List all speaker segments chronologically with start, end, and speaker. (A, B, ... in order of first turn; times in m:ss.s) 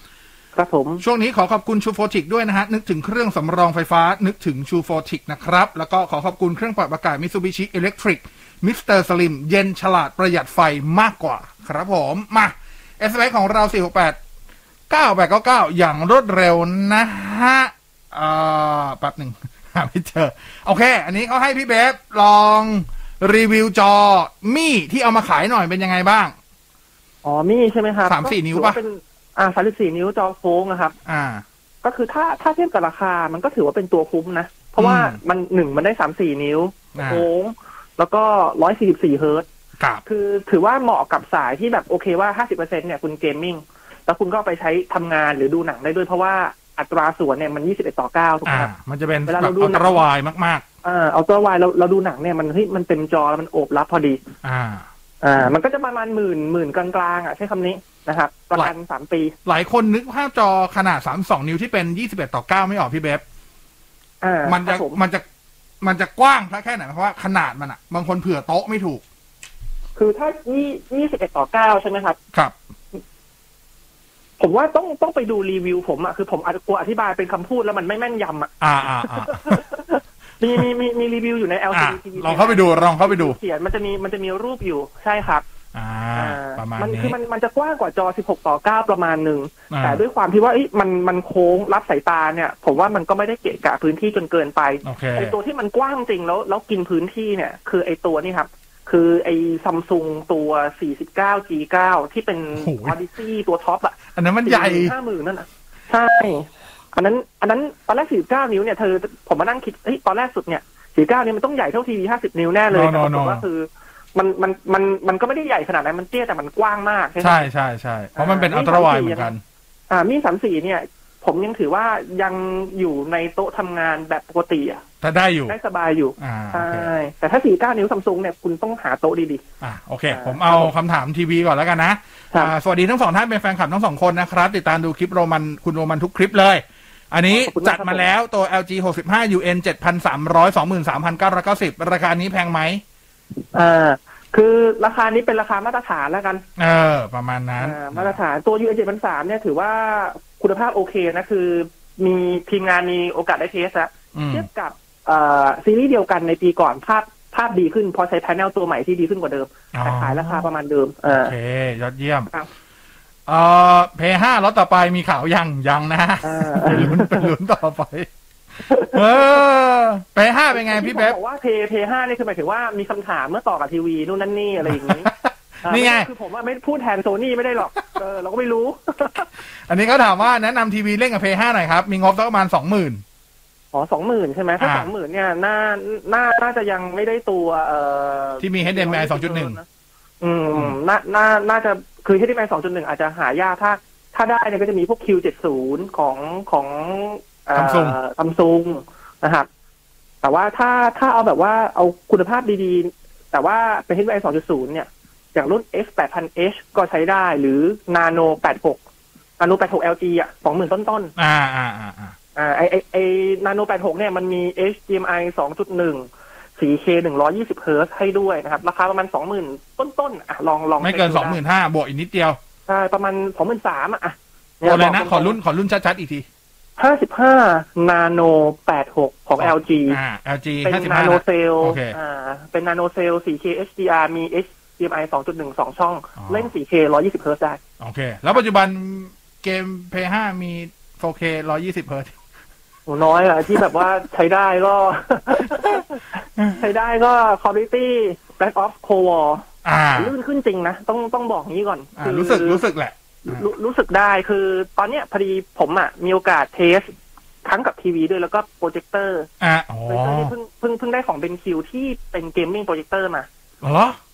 0:00.5-0:01.0 A
0:01.0-0:14.2 B
0:14.9-0:26.3 B
0:27.2-0:30.9 A
0:28.0-0:28.8 B
0:31.0-0:31.4 B
0:31.8-0:39.4 A
0:34.8-0:35.2 B
0:36.9-0:37.2 B
0:40.0-0:48.7 A
0:48.4-0:50.6 B
0:49.3-0:50.0 A
0:50.8-0:54.2 A
0:54.4-0:54.8 B
0:55.2-0:59.3 A
0:59.4-1:03.2 B
1:04.2-1:05.0 A
1:04.4-1:05.2 B
1:05.8-1:09.0 B
1:10.0-1:12.2 A
1:14.4-1:25.4 A
1:18.6-1:19.6 B
1:21.7-1:23.4 B
1:25.7-1:27.2 B
1:26.2-1:57.5 A
1:29.7-1:30.0 B
1:34.8-1:35.4 B
1:42.6-1:43.0 B
1:44.1-1:45.0 B
1:52.7-1:53.4 B
1:57.2-1:59.4 B
1:58.1-1:59.3 A
1:59.9-2:04.8 A
2:05.0-2:05.6 B
2:05.5-2:09.4 A
2:06.2-2:06.9 B
2:09.6-2:22.8 B
2:10.1-2:10.7 A
2:17.3-2:18.1 A
2:23.5-2:26.4 A
2:26.6-2:28.2 B
2:27.6-2:41.3 A
2:34.1-2:34.5 B
2:39.7-2:40.5 B
2:41.1-2:42.3 B
2:43.3-2:48.1 B
2:46.2-2:47.3 A
2:48.7-2:49.4 A
2:48.8-2:51.2 B
2:50.5-2:55.1 A
2:54.6-2:56.1 B
2:55.6-2:59.3 A
2:59.6-3:03.0 B
3:03.7-3:09.6 A
3:04.6-3:04.9 B
3:08.4-3:09.6 B
3:10.2-3:19.5 A
3:17.5-3:18.0 B
3:20.2-3:28.8 A
3:29.4-3:31.1 A
3:31.2-3:32.2 B
3:32.4-3:41.4 A
3:40.8-3:42.4 B
3:42.7-3:45.4 A
3:44.6-3:46.2 B
3:46.8-3:50.0 A
3:49.4-3:52.0 B
3:50.6-3:57.6 A
3:56.2-3:56.5 B
3:57.8-4:02.1 B
4:02.9-4:12.6 A
4:09.6-4:10.1 B
4:12.0-4:13.5 B
4:13.2-4:16.9 A
4:17.4-4:19.3 A
4:19.4-4:20.3 B
4:19.9-4:23.3 A
4:23.6-4:24.0 B